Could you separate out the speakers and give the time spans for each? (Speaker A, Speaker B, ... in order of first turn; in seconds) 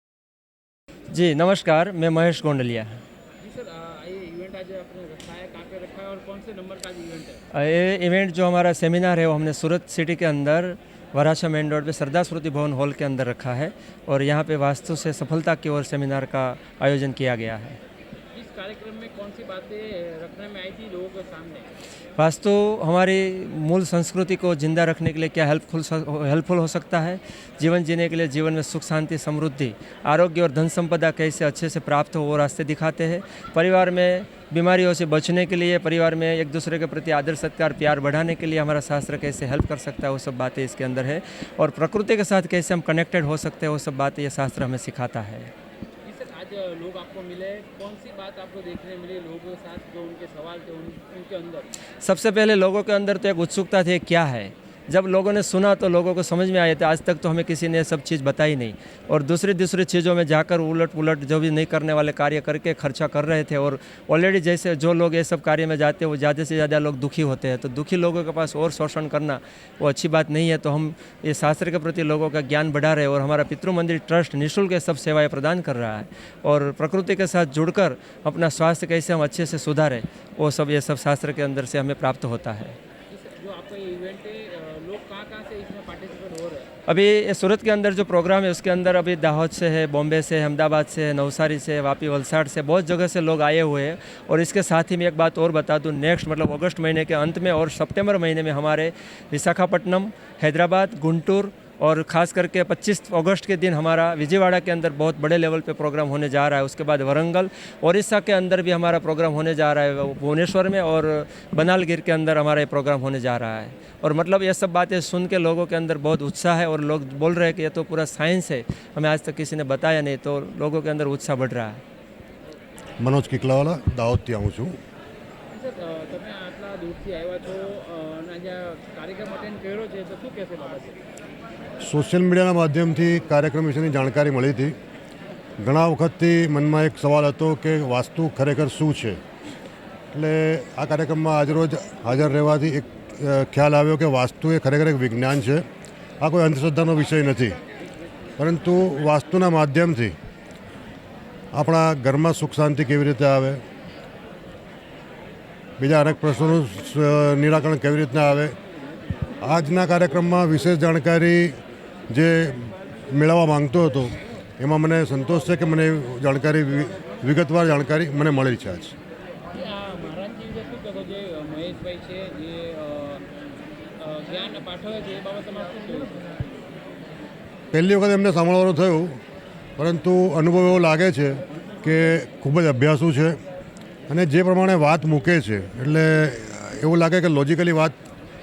Speaker A: 1.1-3.0, 7.5-17.8, 22.2-45.5, 52.0-82.8, 86.9-121.8
Speaker B: 3.4-7.4, 18.3-21.7, 46.0-51.7, 83.1-86.7, 125.5-131.0, 169.5-173.2, 174.0-176.3
Speaker C: 123.0-124.8, 131.8-134.8, 135.6-139.2, 140.1-145.7, 146.2-147.6, 148.4-150.2, 151.5-153.6, 155.8-158.6, 159.4-161.6, 162.1-169.0, 177.7-179.2, 179.8-183.4, 184.1-188.0